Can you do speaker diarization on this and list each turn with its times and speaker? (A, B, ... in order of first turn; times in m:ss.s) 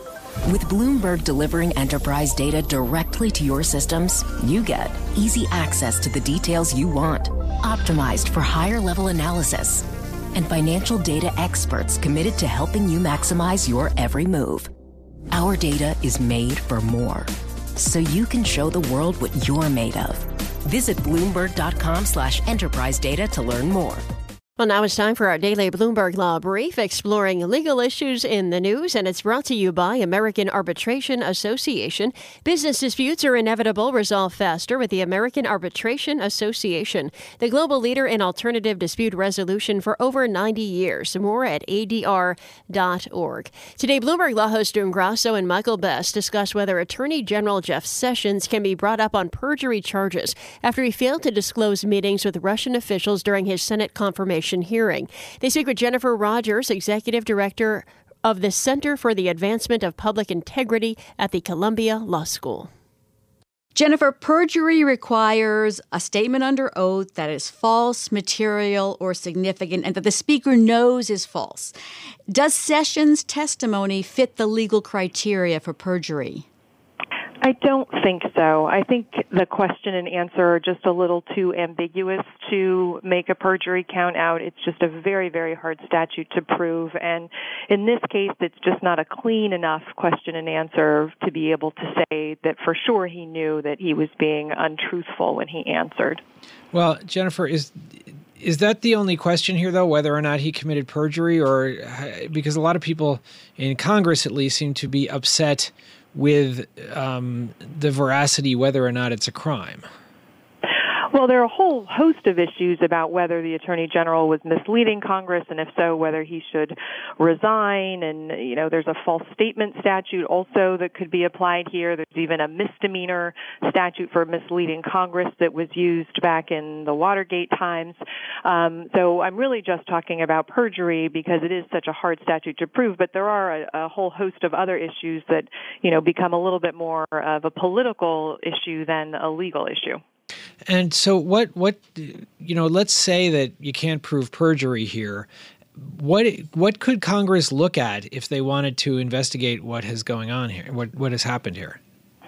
0:00.4-0:14.7 A
0:15.3-0:24.0 A
0:24.6-1:02.7 B
1:03.7-1:11.7 C
1:12.3-1:16.4 C
1:17.4-1:36.2 D
1:36.7-1:37.8 E
1:38.4-1:49.8 E
1:51.1-2:20.0 D
2:20.6-2:31.8 E